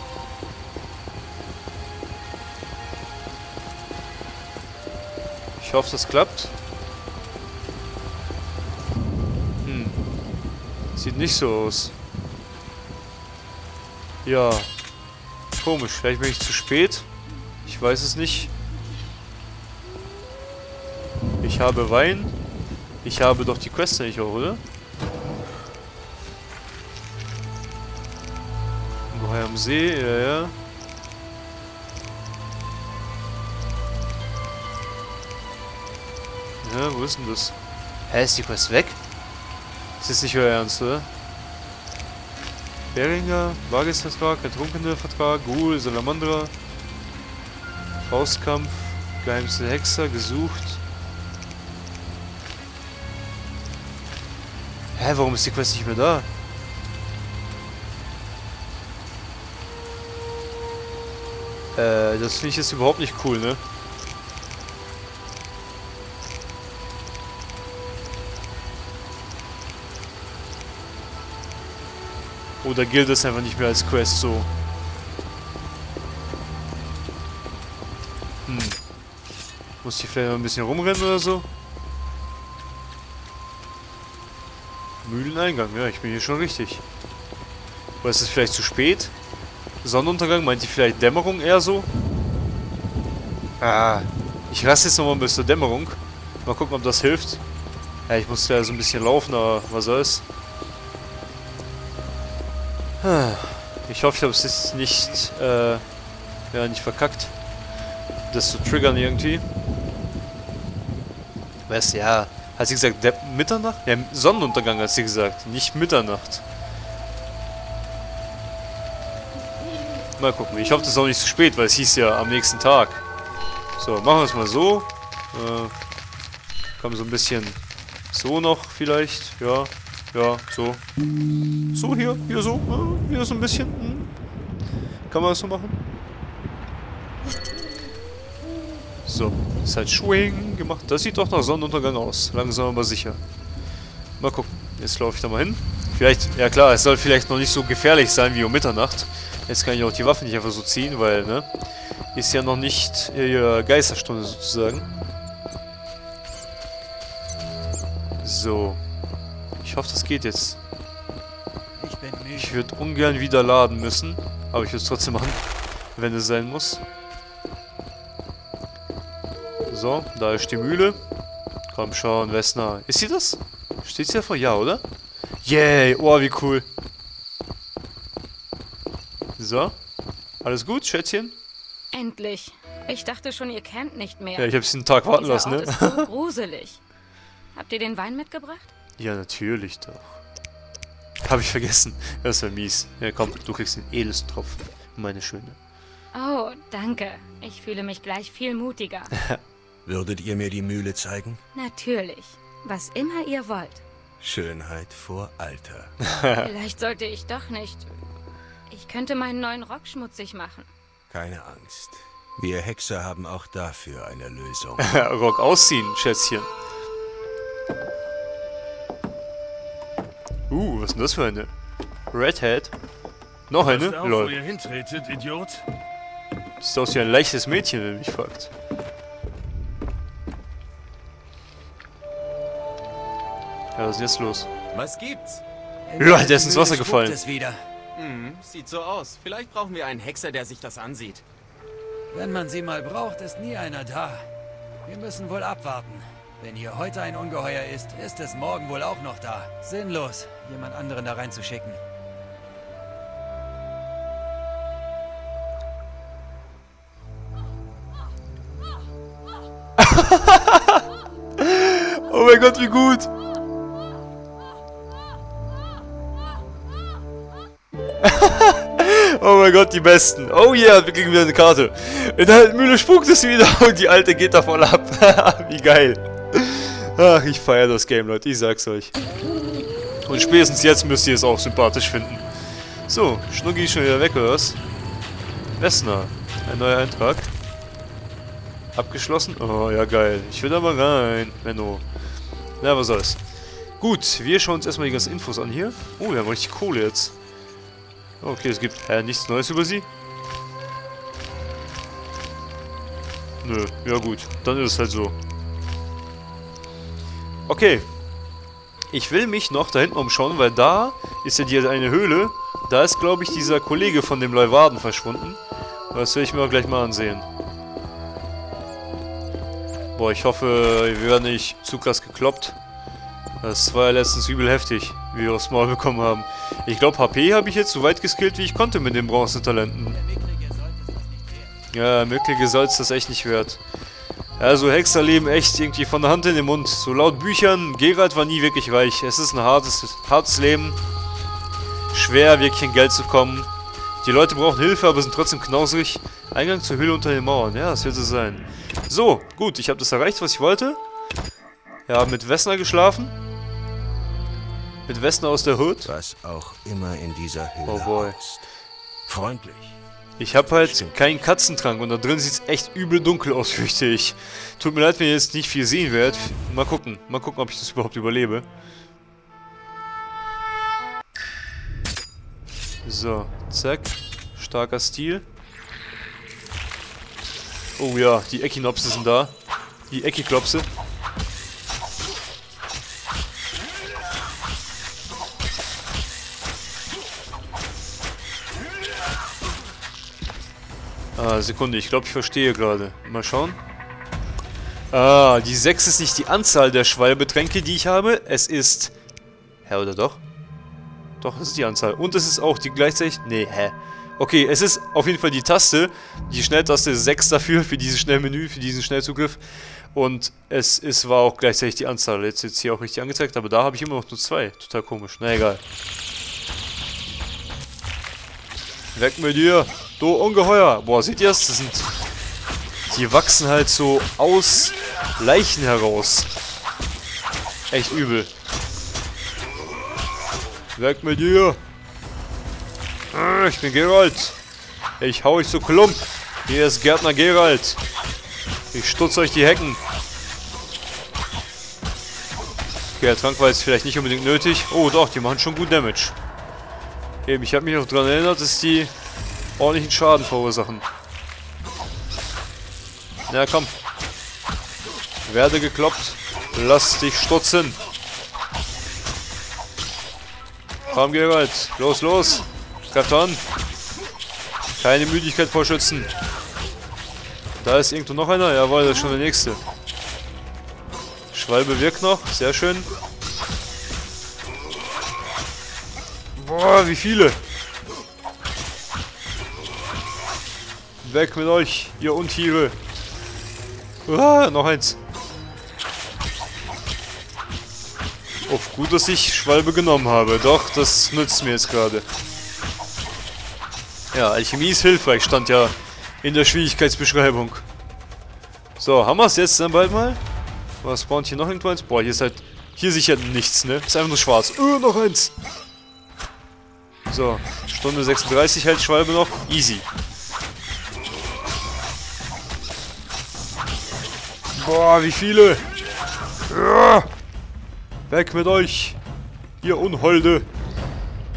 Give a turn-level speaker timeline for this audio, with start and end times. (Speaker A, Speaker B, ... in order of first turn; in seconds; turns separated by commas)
Speaker A: 5.6-6.5, Speaker A: 9.7-10.0, Speaker A: 10.9-11.9, Speaker A: 14.2-14.7, Speaker A: 15.6-17.1, Speaker A: 17.6-18.5, Speaker A: 21.4-22.3, Speaker A: 23.0-24.6, Speaker A: 29.1-30.6, Speaker A: 36.6-37.5, Speaker A: 38.1-39.0, Speaker A: 40.0-41.1, Speaker A: 42.9-46.5, Speaker A: 48.0-50.8, Speaker A: 55.0-56.3, Speaker A: 61.8-63.6, Speaker A: 72.6-74.5, Speaker A: 78.5-78.8, Speaker A: 79.8-81.5, Speaker A: 85.0-86.8, Speaker A: 88.0-89.1, Speaker A: 89.8-91.9, Speaker A: 93.6-97.4, Speaker A: 98.1-100.2, Speaker A: 103.0-105.8, Speaker A: 106.5-107.3, Speaker A: 108.3-109.5, Speaker A: 111.7-116.4, Speaker A: 120.2-123.0, Speaker A: 123.8-125.7, Speaker A: 126.8-127.6, Speaker A: 128.1-130.8, Speaker A: 131.7-134.1, Speaker A: 135.1-135.8, Speaker A: 139.1-143.2, Speaker A: 144.2-151.5, Speaker A: 152.2-154.9, Speaker A: 158.2-158.8, Speaker A: 159.6-160.6, Speaker B: 161.8-162.6, Speaker A: 162.3-165.4, Speaker A: 166.0-166.8, Speaker A: 169.7-171.0, Speaker A: 171.7-174.8, Speaker A: 175.4-176.7, Speaker A: 179.4-179.8, Speaker A: 180.4-181.4, Speaker C: 181.9-184.5, Speaker A: 184.4-186.1, Speaker C: 185.1-186.8, Speaker C: 187.6-188.7, Speaker A: 189.0-190.2, Speaker A: 191.2-195.6, Speaker C: 196.1-199.1, Speaker D: 199.8-201.4, Speaker C: 201.6-203.8, Speaker D: 204.2-205.9, Speaker A: 206.0-206.5, Speaker C: 206.4-207.9, Speaker C: 208.7-210.7, Speaker D: 211.1-214.9, Speaker A: 214.8-216.5, Speaker A: 220.5-221.5, Speaker A: 222.1-222.7, Speaker A: 223.5-224.4, Speaker E: 223.6-225.6, Speaker A: 226.6-228.5, Speaker A: 233.8-234.5, Speaker F: 234.7-235.4, Speaker B: 235.9-237.6, Speaker A: 236.0-237.2, Speaker F: 238.0-241.2, Speaker B: 242.1-244.2, Speaker B: 244.9-251.8, Speaker A: 259.8-260.8, Speaker A: 261.4-263.1, Speaker A: 268.0-278.9, Speaker A: 280.1-282.3, Speaker A: 282.9-284.6, Speaker A: 285.6-287.3, Speaker A: 288.8-291.8, Speaker A: 292.6-293.2, Speaker A: 293.8-297.1, Speaker A: 298.2-299.9, Speaker A: 303.4-305.2, Speaker A: 307.5-307.9, Speaker A: 308.9-315.4, Speaker A: 315.9-317.3, Speaker A: 319.9-322.6, Speaker A: 323.4-330.0, Speaker B: 329.9-331.6, Speaker A: 331.7-333.6, Speaker A: 334.4-340.8, Speaker A: 341.9-343.5, Speaker A: 344.0-350.8, Speaker A: 351.9-353.1, Speaker A: 354.9-355.9, Speaker D: 355.9-358.5, Speaker A: 357.6-358.2, Speaker D: 359.1-359.8, Speaker A: 360.2-368.5, Speaker D: 360.5-361.0, Speaker A: 372.8-375.3, Speaker A: 377.8-379.4, Speaker A: 379.9-380.7, Speaker A: 391.2-393.6, Speaker A: 394.9-398.9, Speaker A: 399.6-400.2, Speaker A: 401.2-409.4, Speaker A: 409.9-415.6, Speaker A: 418.9-421.9, Speaker A: 422.9-426.3, Speaker A: 427.7-428.3, Speaker A: 430.8-431.6, Speaker A: 433.1-434.4, Speaker A: 435.0-437.8, Speaker A: 438.7-439.8, Speaker A: 443.0-446.2, Speaker A: 447.3-448.9, Speaker A: 449.6-450.9, Speaker A: 453.3-453.7, Speaker A: 455.3-457.8, Speaker A: 460.9-463.4, Speaker A: 464.8-466.1, Speaker A: 467.6-469.6, Speaker A: 471.3-472.9, Speaker A: 476.4-477.4, Speaker A: 481.0-482.8, Speaker A: 484.1-485.0, Speaker A: 488.5-492.1, Speaker A: 494.1-497.7, Speaker A: 498.8-500.2, Speaker A: 500.8-505.3, Speaker A: 507.1-509.9, Speaker A: 514.5-515.6, Speaker A: 516.5-517.1, Speaker A: 518.1-519.0, Speaker A: 519.6-520.5